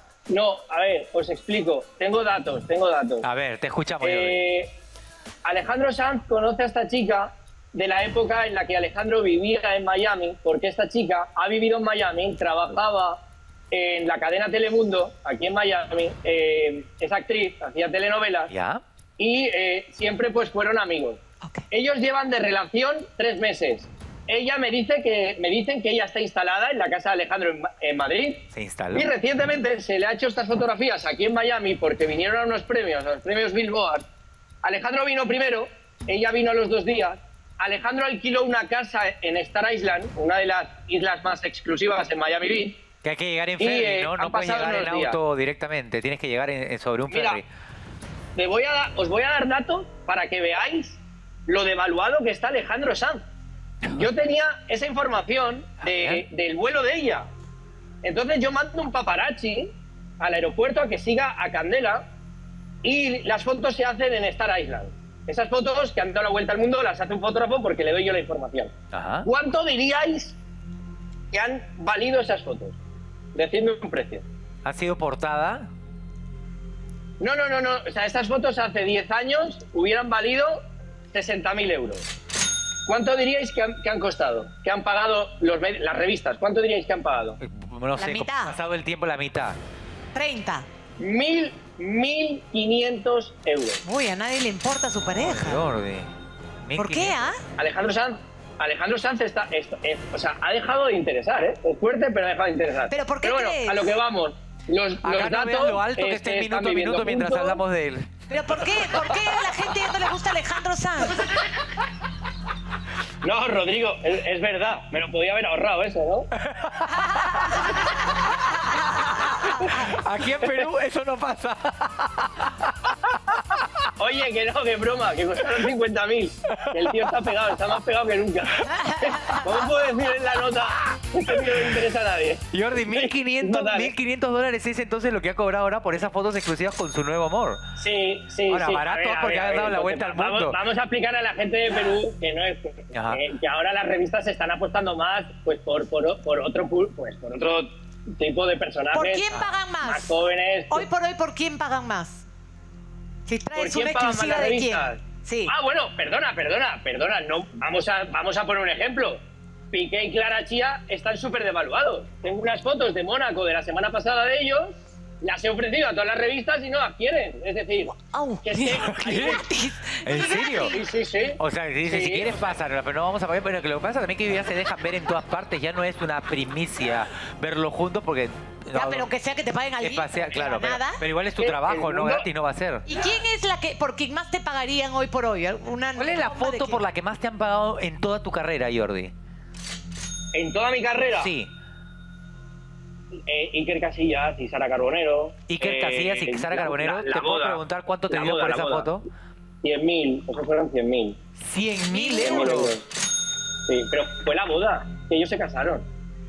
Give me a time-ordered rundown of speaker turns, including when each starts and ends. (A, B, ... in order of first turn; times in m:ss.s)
0:00.3-0:03.2 A
0:03.2-0:04.4 B
0:04.0-0:04.7 A
0:05.4-0:18.5 A
0:18.5-0:18.8 B
0:19.2-0:34.0 A
0:28.5-0:29.1 B
0:34.6-0:42.8 A
0:43.0-0:47.5 B
0:43.6-0:45.2 A
0:47.1-0:47.4 A
0:48.4-0:53.2 A
0:53.9-0:57.3 A
0:55.8-0:56.2 B
0:58.0-1:02.0 A
1:02.8-1:08.7 A
1:08.9-1:09.3 B
1:09.2-1:10.4 A
1:11.3-1:12.8 A
1:13.4-1:14.2 A
1:14.6-1:15.7 B
1:17.2-1:20.6 A
1:21.1-1:22.0 A
1:22.9-1:27.4 A
1:27.4-1:29.6 B
1:28.0-1:28.6 C
1:30.2-1:30.7 C
1:31.0-1:33.8 A
1:33.8-1:35.6 C
1:35.2-1:36.1 B
1:36.6-1:37.3 B
1:36.8-1:37.4 C
1:37.6-1:47.6 A
1:42.9-1:43.9 C
1:45.0-1:48.9 B
1:48.3-1:51.2 C
1:53.2-1:56.3 A
1:56.4-2:03.7 B
1:57.1-1:57.8 C
2:04.0-2:13.9 A
2:06.6-2:07.1 B
2:08.7-2:09.7 C
2:12.5-2:17.6 B
2:17.8-2:29.3 A
2:18.5-2:20.6 B
2:22.9-2:23.2 B
2:28.9-2:30.2 C
2:29.3-2:29.6 B
2:29.8-2:30.9 A
2:30.7-2:32.3 C
2:33.3-2:35.5 C
2:33.6-2:39.2 A
2:39.7-2:49.4 A
2:48.0-2:50.8 C
2:48.8-2:50.7 B
2:50.7-2:52.5 A
2:51.4-2:59.1 B
2:58.7-3:01.0 C
2:59.8-3:02.8 B
3:01.4-3:02.3 A
3:02.9-3:06.8 C
3:06.0-3:09.1 B
3:10.3-3:11.3 A
3:11.1-3:11.5 B
3:13.3-3:18.9 A
3:15.5-3:19.1 B
3:19.6-3:21.2 A
3:21.4-3:22.7 B
3:21.9-3:22.7 C
3:22.2-3:22.9 A
3:23.7-3:25.9 A